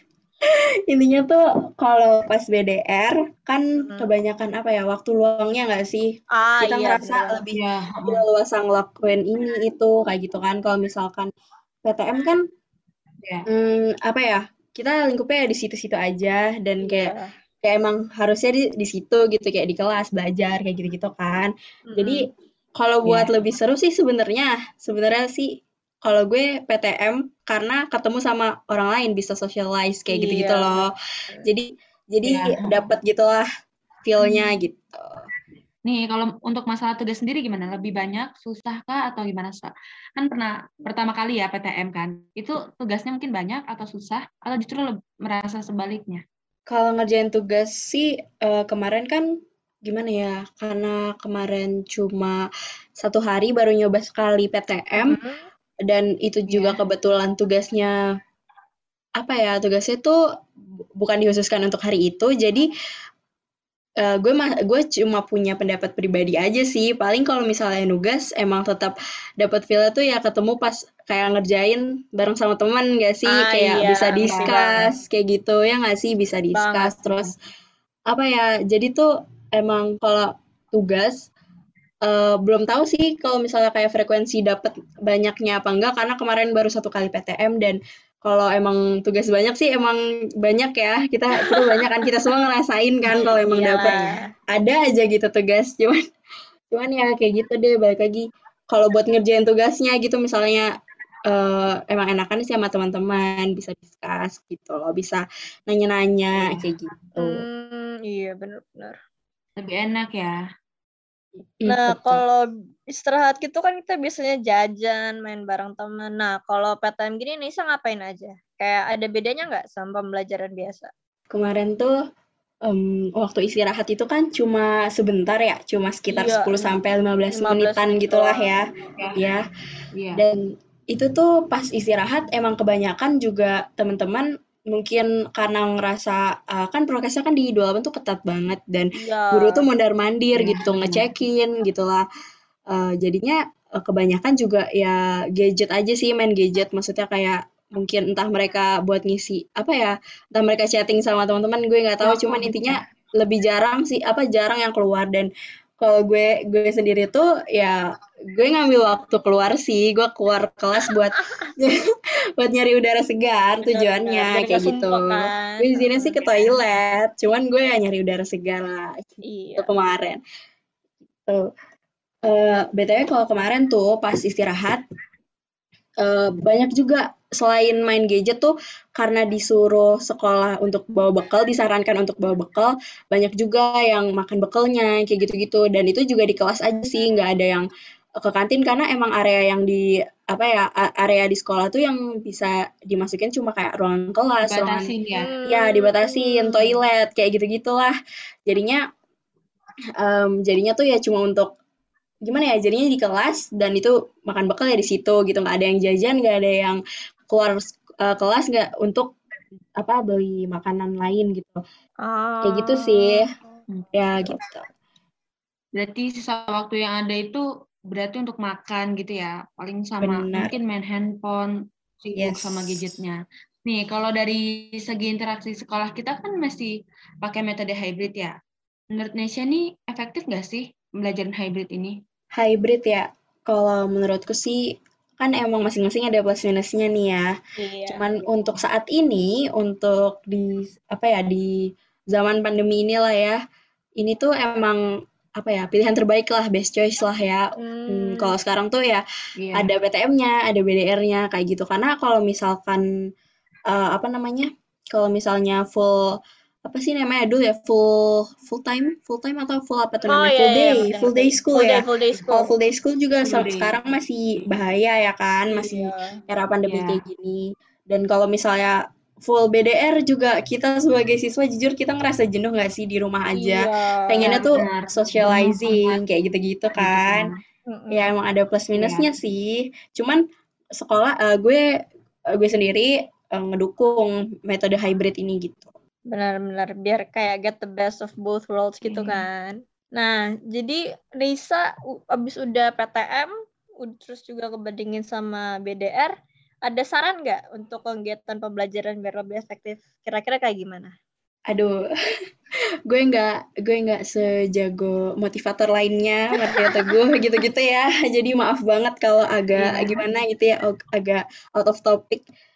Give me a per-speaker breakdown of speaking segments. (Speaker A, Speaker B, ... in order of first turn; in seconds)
Speaker A: 0.9-6.1, 6.6-11.3, 11.8-12.4, 13.5-22.2, 22.8-30.9, 31.4-33.5, 34.0-35.3, 46.7-49.3, 49.9-52.5, 53.0-55.2, 55.9-57.9, 59.2-60.2, 61.0-62.7, 64.0-77.3, 78.1-81.3, 82.0-96.0, 96.7-100.7, 101.3-107.4, 111.6-112.2, 121.3-122.0, 122.7-129.4, 130.2-142.1, 142.7-157.8, 158.3-161.8, 162.4-170.2, 172.3-174.8, 176.0-187.7, 188.2-194.9, 195.5-197.9, 198.5-198.8, 200.0-201.5, 202.2-209.1, 209.8-211.6, 212.4-213.2, 213.9-214.7, 220.0-220.5, 222.2-222.9, 232.4-237.3, 237.9-241.6, 242.1-243.4, 244.0-244.8, 245.4-249.0, 249.5-252.9, 253.7-256.0, 256.6-277.3, 277.9-280.2, 280.8-281.6, 282.3-285.7, 301.5-301.8, 302.9-312.2
Speaker B: 3.8-4.1, 6.3-7.4, 16.8-17.3, 21.9-22.3, 30.1-31.4, 55.0-55.5, 73.3-74.9, 76.5-77.1, 91.5-91.8, 93.4-94.1, 107.2-109.0, 111.7-120.9, 126.1-126.7, 127.3-128.5, 138.9-139.7, 163.7-166.6, 169.3-169.7, 195.2-196.6, 212.0-213.2, 237.6-238.2, 247.6-248.3, 260.1-262.5, 265.5-266.1, 273.3-274.6, 277.7-278.1, 286.1-296.1, 296.7-300.9, 306.6-306.9
Speaker C: 7.6-8.2, 23.0-23.3, 32.2-32.9, 34.2-34.6, 35.9-46.2, 56.5-56.8, 74.3-74.8, 106.3-106.7, 109.6-110.4, 129.9-130.2, 140.3-141.1, 152.0-152.8, 194.4-195.3, 213.7-214.3, 215.8-226.7, 227.2-228.3, 228.9-232.0, 249.4-249.7, 263.2-263.8, 266.6-267.0, 274.2-276.0, 276.8-277.4, 278.7-279.1, 288.8-289.3, 309.6-310.0